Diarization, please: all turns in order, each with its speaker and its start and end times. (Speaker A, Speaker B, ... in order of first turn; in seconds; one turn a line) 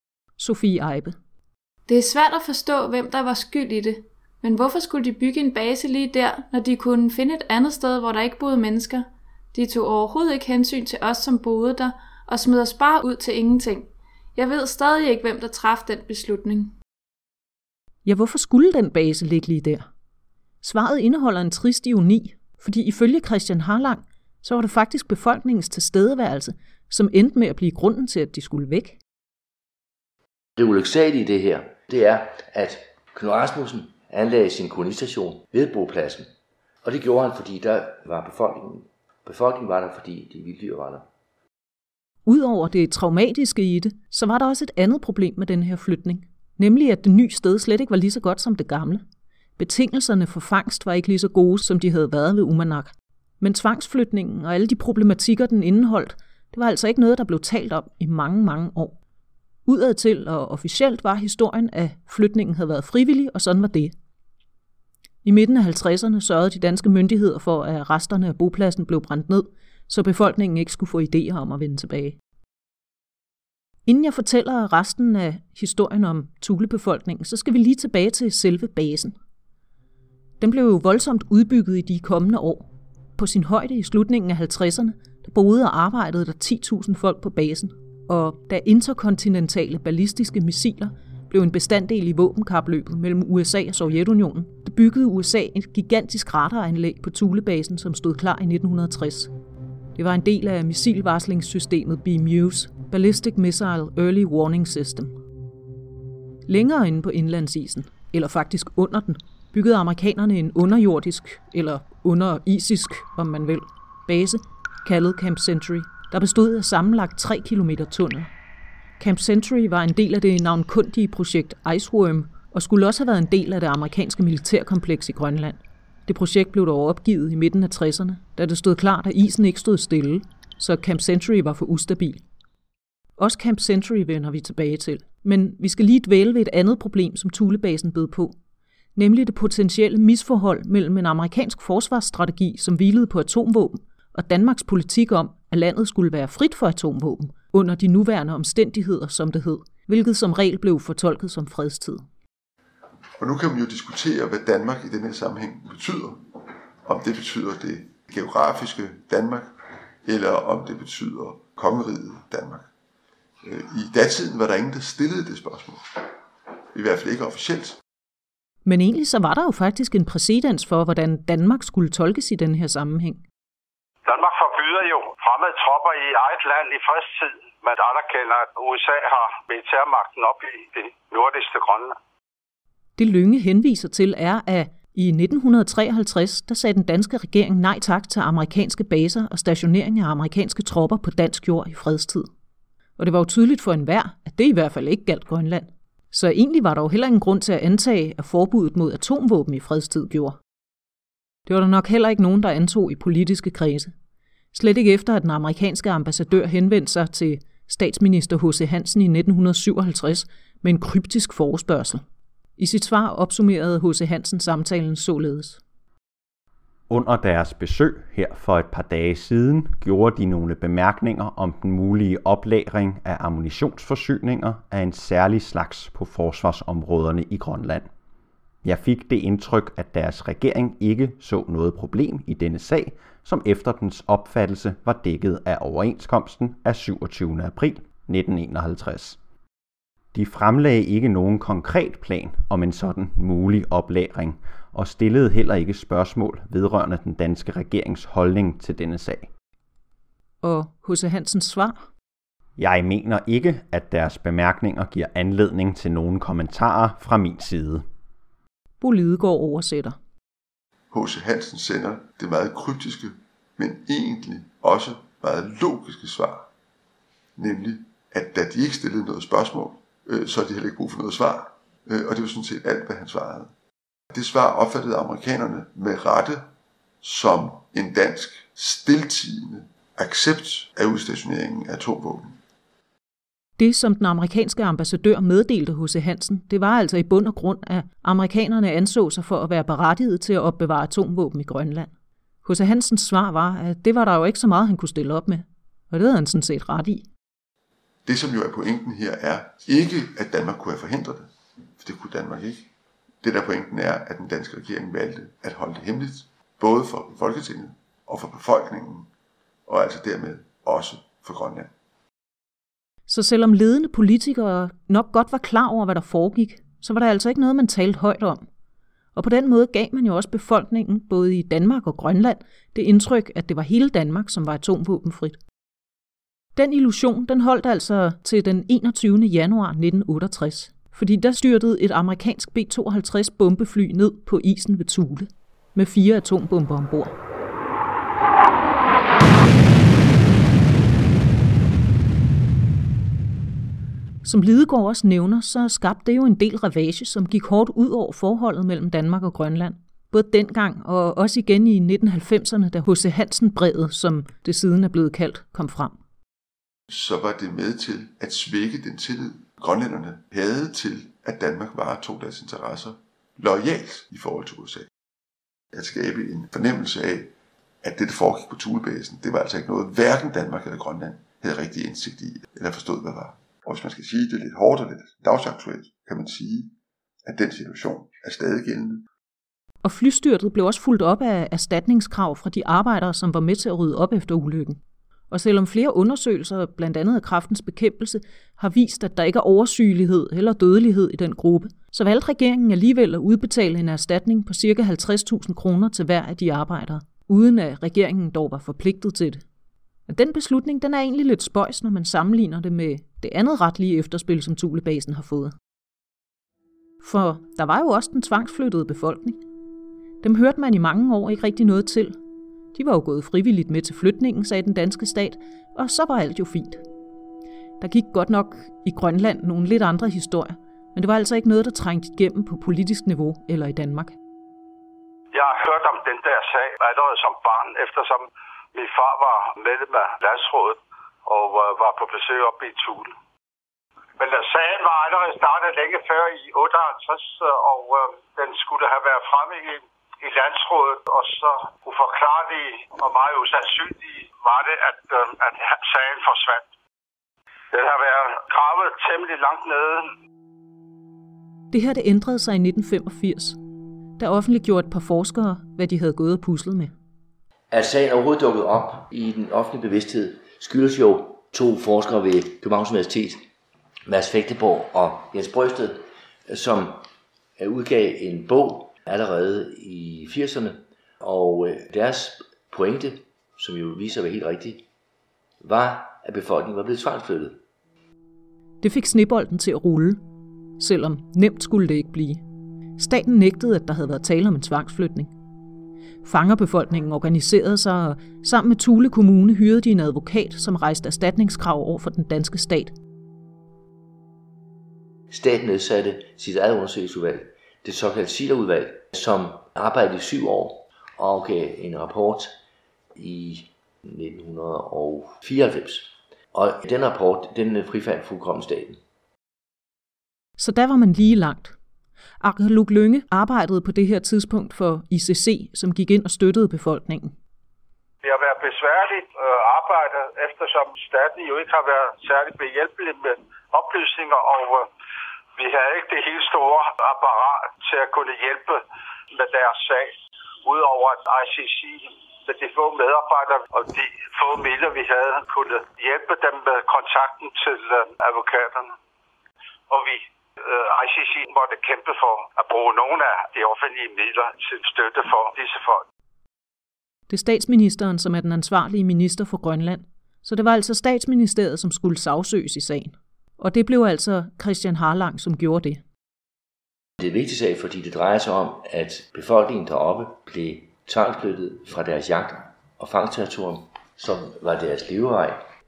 Speaker A: 0.4-1.1
Speaker B: 1.9-16.8
Speaker A: 18.1-19.9
Speaker A: 20.6-29.0
Speaker C: 30.6-36.3
Speaker C: 36.8-41.1
Speaker A: 42.3-49.0
Speaker A: 49.6-59.0
Speaker A: 59.6-63.9
Speaker A: 65.2-72.2
Speaker A: 73.9-79.1
Speaker A: 80.4-99.3
Speaker A: 100.0-105.2
Speaker A: 106.5-118.3
Speaker A: 119.0-132.2
Speaker A: 133.2-138.3
Speaker A: 139.0-152.0
Speaker D: 153.2-159.5
Speaker D: 160.0-162.7
Speaker D: 163.4-166.2
Speaker D: 166.7-167.8
Speaker A: 168.6-173.2
Speaker E: 174.1-182.0
Speaker A: 183.0-192.3
Speaker A: 193.0-200.4
Speaker A: 201.5-203.9
Speaker A: 204.5-212.0
Speaker A: 212.6-215.6
Speaker F: 216.9-227.9
Speaker F: 228.6-239.2
Speaker F: 240.1-249.3
Speaker A: 250.4-251.9
Speaker F: 252.6-257.9
Speaker A: 258.8-260.0
Speaker D: 260.9-266.5
Speaker D: 267.4-273.5
Speaker D: 274.1-276.5
Speaker D: 277.0-282.4
Speaker A: 283.6-291.9
Speaker A: 292.4-297.1
Speaker D: 298.1-302.7
Speaker D: 303.2-309.1
Speaker D: 309.7-311.7
Speaker A: 313.1-318.4
Speaker A: 319.1-325.4
Speaker A: 326.6-337.1
Speaker A: 344.2-356.0
Speaker D: 356.9-364.9
Speaker D: 365.7-367.3
Speaker D: 367.8-376.7
Speaker D: 377.2-379.1
Speaker A: 379.8-384.8
Speaker A: 385.3-399.4
Speaker A: 400.1-405.5
Speaker A: 407.0-409.4
Speaker A: 410.2-412.1
Speaker A: 412.7-416.8
Speaker A: 417.8-424.1
Speaker E: 425.3-433.1
Speaker E: 434.2-446.7
Speaker E: 447.7-450.1
Speaker A: 451.7-453.6
Speaker A: 454.2-456.9
Speaker C: 457.7-463.4
Speaker C: 464.1-467.1
Speaker C: 467.6-474.8
Speaker C: 475.6-477.6
Speaker A: 478.8-480.2
Speaker A: 480.8-482.4
Speaker A: 483.0-485.3
Speaker A: 486.2-492.9
Speaker C: 495.3-502.5
Speaker C: 503.1-509.0
Speaker A: 510.6-511.8
Speaker A: 512.4-517.4
Speaker E: 518.2-524.9
Speaker E: 525.6-530.1
Speaker E: 530.6-539.0
Speaker E: 539.9-546.0
Speaker A: 547.3-556.0
Speaker C: 557.2-565.6